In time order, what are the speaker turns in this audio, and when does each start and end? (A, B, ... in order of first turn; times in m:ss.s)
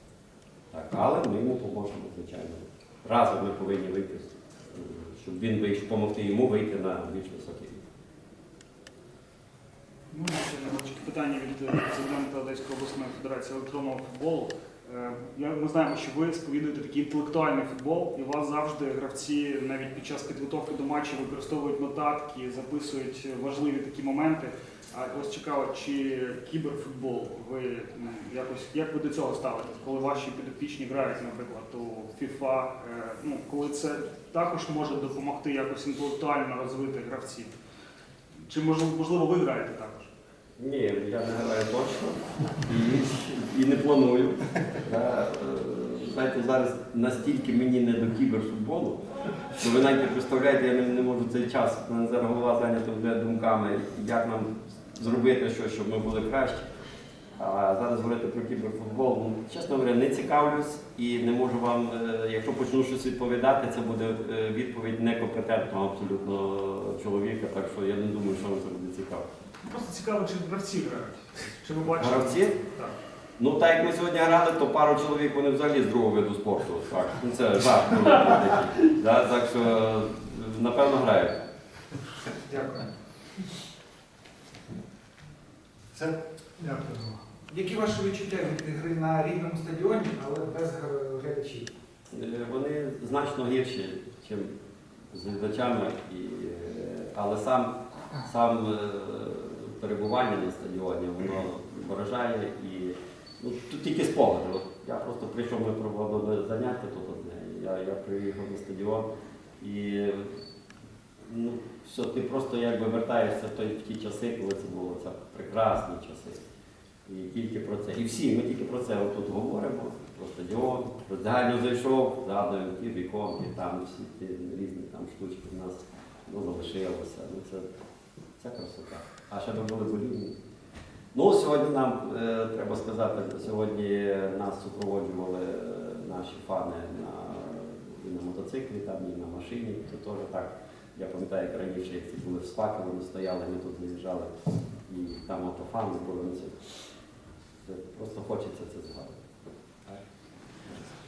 0:00.7-0:07.8 A
0:10.1-0:37.5 B
0:38.4-0:40.1 B
0:40.6-0:49.0 A
0:49.5-0:56.7 A
0:57.4-1:09.2 A
1:09.6-1:12.9 B
1:12.0-1:12.6 A
1:13.4-1:21.4 A
1:22.5-1:22.9 C
1:25.9-1:31.7 C
1:32.1-1:34.5 A
1:35.1-1:49.1 A
1:49.6-1:50.3 A
1:51.2-1:56.4 A
1:57.0-2:07.7 A
2:08.4-2:10.4 A
2:11.1-2:24.3 A
2:24.9-2:26.6 A
2:27.6-2:29.2 A